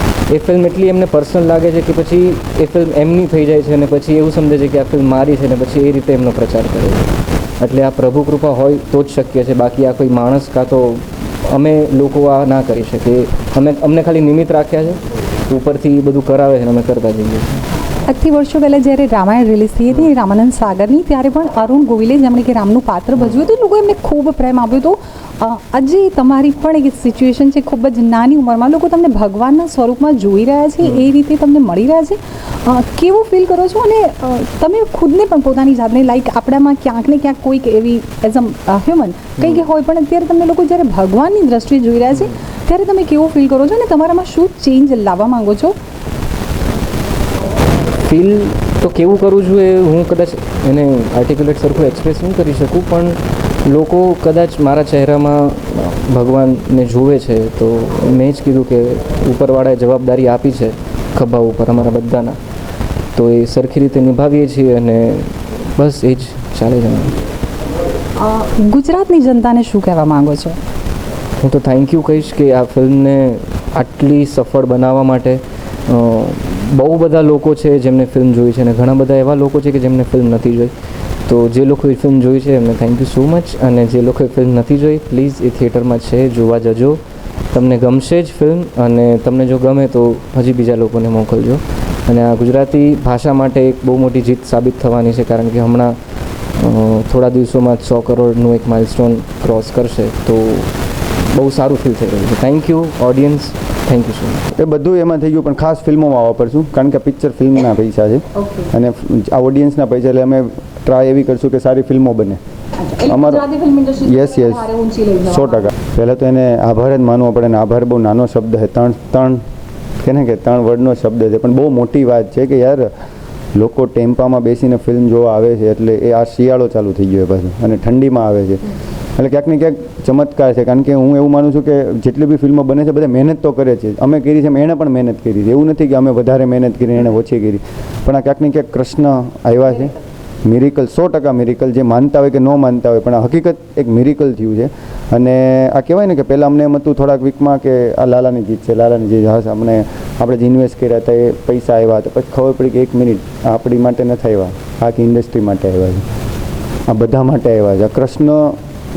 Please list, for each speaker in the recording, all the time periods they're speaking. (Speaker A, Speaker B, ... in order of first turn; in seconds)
Speaker A: 0.3-7.1, 7.6-17.5, 39.4-39.7, 48.0-62.4, 63.2-67.2, 71.4-80.7, 81.3-87.0, 87.5-96.0, 96.6-100.7, 101.3-104.5
Speaker B: 18.1-45.8, 68.2-70.6, 108.4-108.7, 112.8-115.7
Speaker C: 104.6-112.4, 113.1-113.5, 114.0-114.7, 115.3-119.4, 120.0-122.9, 123.6-128.6, 129.2-139.9, 140.4-156.1, 156.9-158.6